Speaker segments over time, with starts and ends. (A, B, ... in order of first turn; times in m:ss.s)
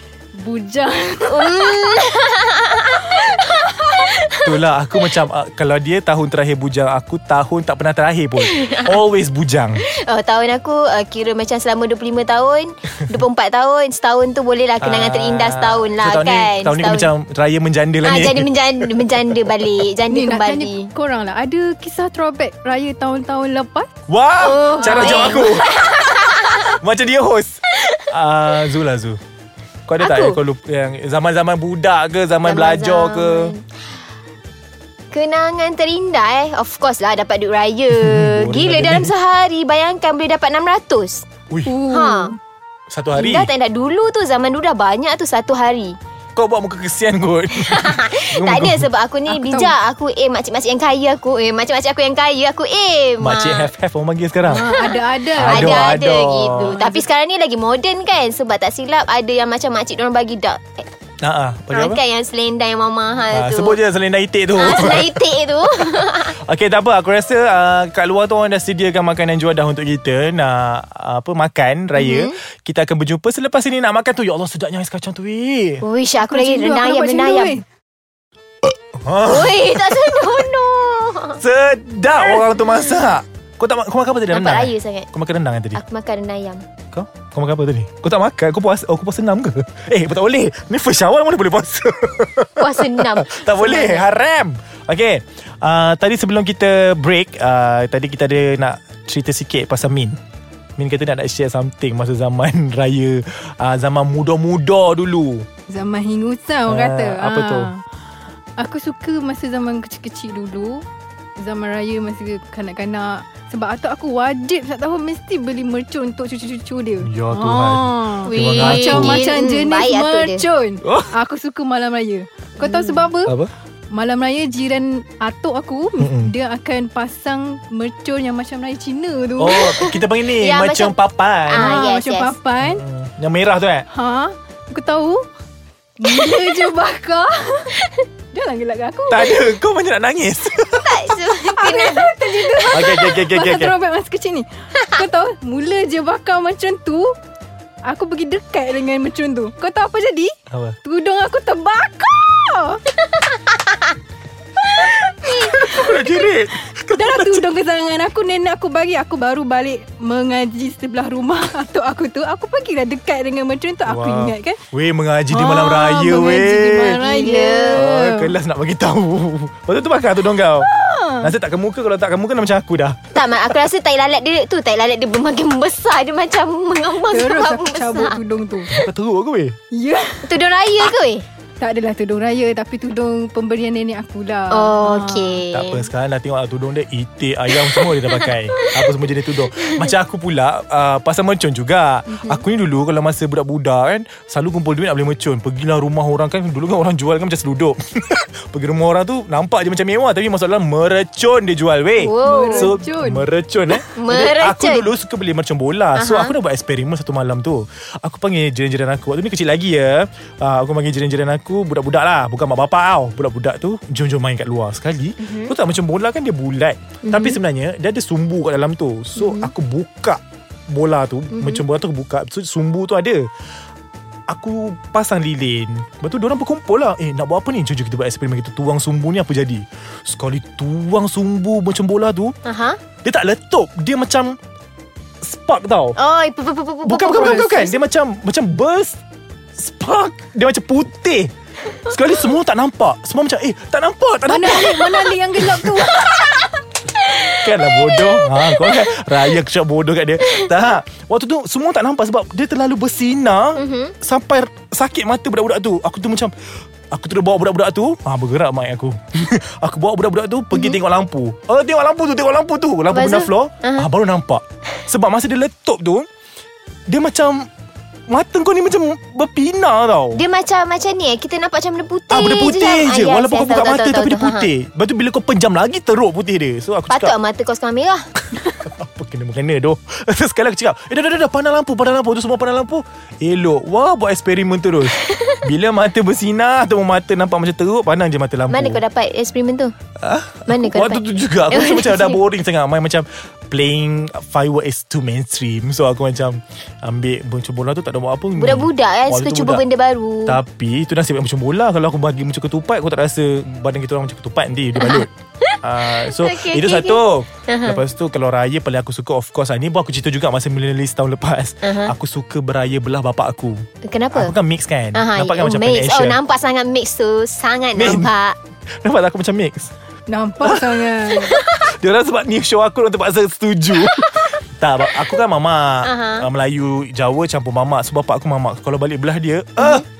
0:00.4-0:01.7 A
0:01.2-0:04.6 B
0:03.0-0:03.6 A
0:04.4-0:09.8 C
0:08.4-0:08.8 B
0:10.0-0:17.1 B
0:14.8-0:19.5 C
0:18.0-0:20.9 B
0:20.1-0:23.9 A
0:24.1-0:25.7 C
0:24.4-0:26.7 B
0:24.8-0:25.4 A
0:26.6-0:29.2 C
0:29.9-0:33.6 C
0:30.0-0:30.4 B
0:32.4-0:33.6 B
0:35.1-0:41.3 B
0:37.9-0:39.1 C
0:41.5-0:41.8 C
0:41.7-0:42.4 A
0:41.8-0:42.4 B
0:42.9-0:43.5 C
0:43.2-0:46.0 B
0:46.4-0:48.9 C
0:47.7-0:53.7 B
0:49.3-0:49.7 A
0:53.2-0:54.7 C
0:54.4-0:55.9 A
0:54.6-1:00.9 B
0:55.4-0:56.8 C
0:56.6-0:57.0 A
1:01.2-1:02.0 C
1:01.7-1:03.8 B
1:03.3-1:05.2 C
1:04.6-1:06.4 B
1:05.8-1:15.8 C
1:12.0-1:12.4 B
1:15.8-1:17.6 B
1:16.2-1:17.6 A
1:18.6-1:20.3 C
1:19.3-1:21.4 B
1:21.4-1:25.8 C
1:22.3-1:23.0 B
1:24.3-1:25.1 B
1:25.8-1:26.6 B
1:26.9-1:40.2 C
1:32.6-1:34.1 B
1:40.8-1:45.5 C
1:45.7-1:47.8 A
1:46.7-1:47.7 C
1:48.6-1:50.8 A
1:51.4-2:03.4 A
1:57.0-1:59.3 C
1:58.2-2:00.5 B
2:00.8-2:01.1 C
2:02.6-2:03.1 B
2:03.2-2:03.5 C
2:03.9-2:10.0 A
2:06.0-2:06.3 C
2:09.4-2:11.8 C
2:09.6-2:11.0 B
2:11.5-2:12.4 B
2:11.6-2:12.8 A
2:12.6-2:13.9 C
2:13.9-2:15.3 A
2:16.0-2:17.8 A
2:16.0-2:16.7 B
2:17.7-2:18.0 B
2:18.3-2:19.5 A
2:19.1-2:21.1 C
2:20.8-2:23.1 B
2:21.3-2:27.2 A
2:22.7-2:23.7 C
2:24.8-2:25.0 B
2:27.8-2:32.8 A
2:30.5-2:30.8 C
2:33.2-2:33.9 B
2:34.7-2:44.6 A
2:35.3-2:35.6 B
2:35.4-2:37.5 C
2:43.9-2:47.0 C
2:45.3-2:48.4 A
2:47.0-2:47.9 B
2:47.7-2:53.5 C
2:50.6-2:51.3 A
2:53.2-2:58.2 B
2:57.0-2:58.7 A
2:58.7-2:59.6 C
2:59.7-3:00.3 A
3:00.2-3:01.3 B
3:01.6-3:05.4 A
3:04.5-3:05.9 B
3:05.5-3:43.3 C
3:07.7-3:09.0 B
3:09.6-3:09.9 B
3:12.1-3:12.4 B
3:22.0-3:22.7 B
3:22.2-3:23.2 A
3:23.7-3:24.9 B
3:26.0-3:26.3 B
3:35.2-3:35.5 B
3:37.0-3:37.4 B
3:39.2-3:39.5 B
3:41.3-3:41.6 B
3:44.3-3:52.4 C
3:52.4-3:52.8 B
3:53.0-3:54.4 C
3:55.2-3:56.0 C
3:56.0-3:57.8 B
3:56.8-3:59.0 C
3:57.1-3:57.5 A
3:59.6-4:01.3 C
4:01.8-4:06.1 C
4:04.3-4:06.4 A
4:07.2-4:09.0 B
4:07.3-4:16.3 C
4:10.3-4:10.7 B
4:13.6-4:14.0 B
4:16.9-4:26.1 C
4:20.5-4:20.8 B
4:22.9-4:23.9 B
4:26.9-4:27.5 C
4:28.1-4:30.2 C
4:30.2-4:34.5 B
4:32.1-4:37.2 C
4:36.9-4:38.0 B
4:38.6-4:48.8 C
4:44.9-4:45.4 B
4:48.5-4:49.7 B
4:50.0-4:59.6 C
4:50.5-4:52.2 B
4:58.4-5:00.4 B
5:00.3-5:05.1 C
5:04.8-5:07.8 B
5:05.6-5:16.2 C
5:11.6-5:11.9 B
5:13.8-5:14.3 B
5:15.0-5:18.4 B
5:17.8-5:18.1 C
5:18.8-5:19.7 C
5:20.1-5:21.3 A
5:20.4-5:29.8 C
5:21.2-5:21.6 B
5:23.8-5:24.3 B
5:25.8-5:26.3 B
5:29.6-5:29.9 B